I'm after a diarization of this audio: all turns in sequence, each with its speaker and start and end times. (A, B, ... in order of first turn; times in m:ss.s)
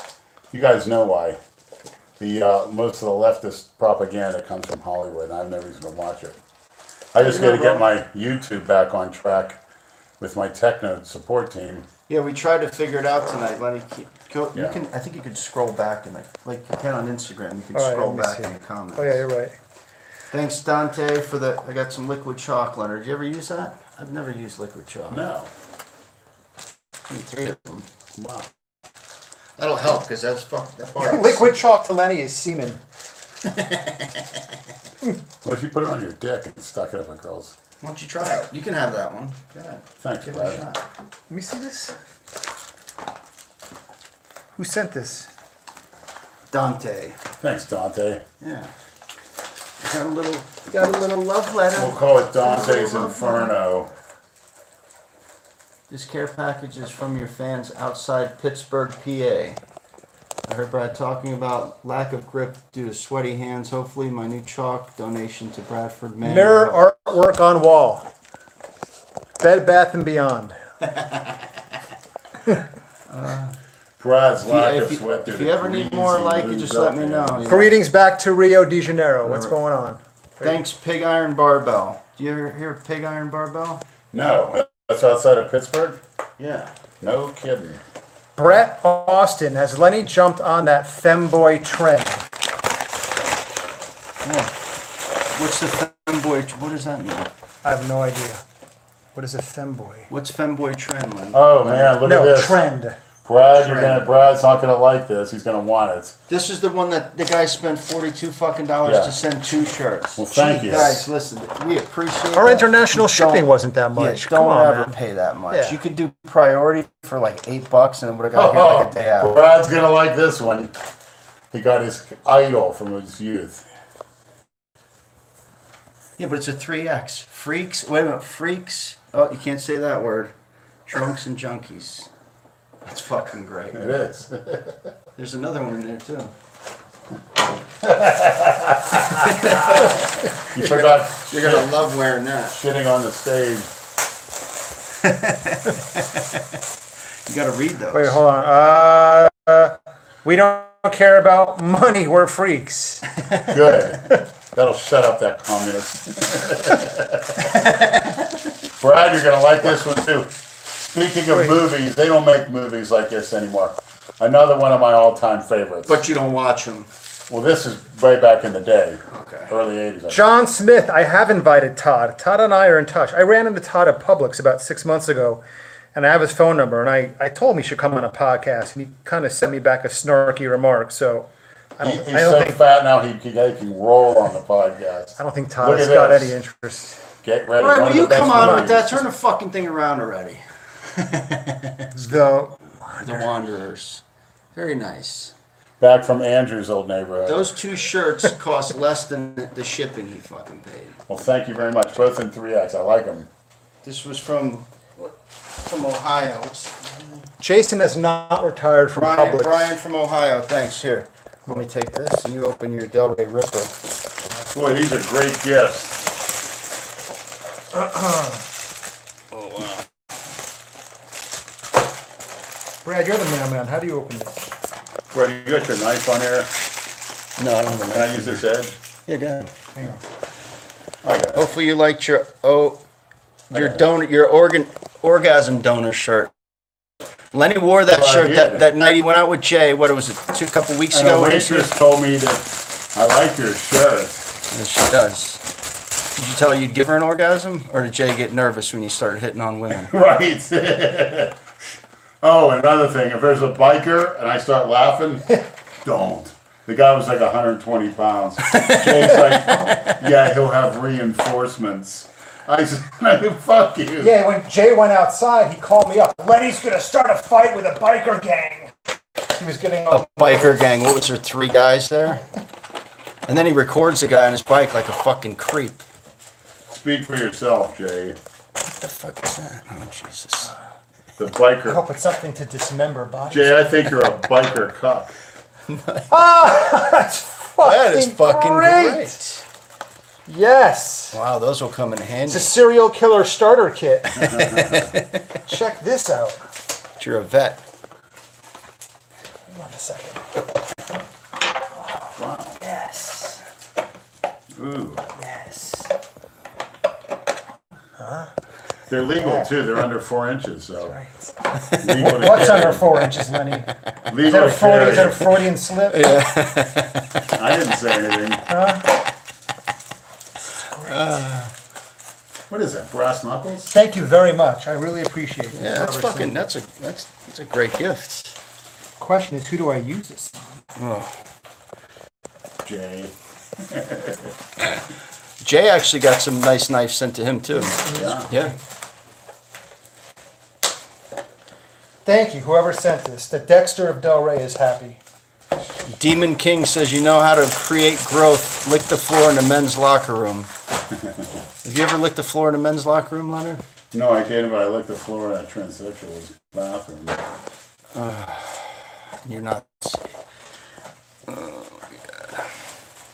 0:00.5-0:01.4 A
0:02.2-0:06.4 A
0:07.1-0:09.6 A
0:07.2-0:07.9 B
0:10.2-0:11.9 A
0:12.1-0:19.2 B
0:17.7-0:19.5 C
0:20.3-0:25.2 B
0:25.1-0:25.5 A
0:27.1-0:27.9 B
0:28.2-0:28.5 A
0:29.6-0:31.6 B
0:31.0-0:32.8 C
0:33.4-0:34.2 B
0:35.4-0:37.6 A
0:37.8-0:40.8 B
0:40.0-0:40.6 A
0:41.3-0:41.9 C
0:44.6-0:45.3 C
0:46.5-0:47.2 B
0:47.4-0:48.2 A
0:48.4-0:48.7 B
0:49.8-0:53.5 B
0:51.7-0:53.9 A
0:55.9-0:59.6 B
1:00.4-1:06.8 B
1:06.2-1:08.1 C
1:09.4-1:10.6 C
1:13.1-1:13.5 B
1:14.0-1:17.6 A
1:14.4-1:17.8 B
1:17.5-1:20.6 C
1:19.2-1:19.5 B
1:20.4-1:23.8 B
1:24.1-1:26.0 A
1:26.4-1:26.7 B
1:27.0-1:27.8 A
1:28.4-1:32.2 C
1:34.2-1:34.5 B
1:35.3-1:37.3 B
1:37.6-1:38.4 C
1:39.1-1:40.1 C
1:40.1-1:41.9 B
1:41.3-1:42.6 A
1:42.0-1:43.0 C
1:43.2-1:46.2 A
1:43.6-1:44.0 B
1:46.3-1:59.3 B
1:48.8-1:49.2 A
1:50.2-1:51.0 A
1:52.3-1:54.9 C
1:55.5-1:55.8 C
1:58.3-2:00.7 A
2:01.5-2:03.6 A
2:06.2-2:10.3 B
2:10.8-2:12.1 B
2:12.8-2:14.0 B
2:13.7-2:14.8 A
2:15.2-2:16.3 B
2:17.8-2:19.9 A
2:19.2-2:22.6 B
2:20.5-2:21.7 A
2:22.5-2:23.7 A
2:25.0-2:26.4 B
2:27.3-2:28.2 B
2:27.9-2:33.1 C
2:33.5-2:37.4 A
2:37.5-2:38.3 B
2:38.8-2:46.0 A
2:45.9-2:46.9 B
2:47.3-2:50.2 A
2:49.1-2:49.5 B
2:50.1-2:55.4 C
2:55.9-3:02.6 C
3:01.8-3:06.3 A
3:05.2-3:07.0 C
3:07.2-3:09.0 A
3:07.6-3:12.0 B
3:08.2-3:08.7 C
3:12.0-3:13.2 C
3:13.0-3:14.0 B
3:14.5-3:15.3 B
3:15.8-3:17.5 A
3:17.3-3:21.0 B
3:21.1-3:23.3 A
3:23.8-3:27.2 B
3:27.4-3:29.7 C
3:29.0-3:33.7 B
3:34.5-3:36.0 A
3:37.7-3:38.4 C
3:39.3-3:39.8 B
3:42.8-3:44.4 C
3:45.1-3:46.5 A
3:47.4-3:48.4 B
3:47.7-3:48.7 A
3:49.1-3:49.5 B
3:51.0-3:51.4 A
3:51.3-3:52.8 B
3:53.5-3:56.3 B
3:53.5-3:53.8 A
3:57.3-4:01.7 B
3:57.9-3:58.6 A
4:00.9-4:04.2 A
4:04.5-4:05.4 B
4:06.2-4:09.9 B
4:09.7-4:11.4 A
4:12.2-4:15.3 A
4:15.8-4:24.1 A
4:18.5-4:20.0 B
4:24.0-4:28.7 C
4:29.4-4:30.6 C
4:29.9-4:32.2 B
4:33.3-4:35.8 B
4:36.7-4:38.2 A
4:38.7-4:40.5 B
4:41.2-4:41.8 A
4:41.6-4:43.6 C
4:43.3-4:45.1 A
4:45.7-4:46.1 B
4:46.1-4:49.2 C
4:47.6-4:49.4 B
4:50.3-4:51.2 C
4:51.1-4:52.5 B
4:52.3-4:54.4 C
4:54.1-4:54.9 A
4:54.2-4:55.2 B
4:55.4-4:56.4 C
4:57.0-4:57.6 B
4:59.5-5:00.2 C
5:02.1-5:02.6 A
5:02.6-5:03.4 C
5:04.6-5:05.1 A
5:05.2-5:05.9 C
5:08.0-5:08.3 C
5:08.9-5:11.0 A
5:09.2-5:09.5 C
5:10.9-5:11.2 C
5:11.8-5:12.8 A
5:12.0-5:13.7 C
5:14.1-5:15.4 A
5:14.2-5:16.2 C
5:15.9-5:17.3 B
5:17.3-5:18.4 A
5:18.4-5:18.9 C
5:20.7-5:21.5 B
5:22.5-5:23.7 A
5:23.7-5:26.4 C
5:25.5-5:28.4 B
5:29.0-5:30.4 C
5:30.8-5:31.2 B
5:32.6-5:34.3 A
5:35.4-5:38.5 B
5:37.6-5:38.2 C
5:37.9-5:38.3 A
5:42.0-5:45.0 C
5:45.9-5:50.5 B
5:51.6-5:53.6 B
5:53.9-5:57.2 A
5:57.9-6:00.1 B
6:01.3-6:02.4 B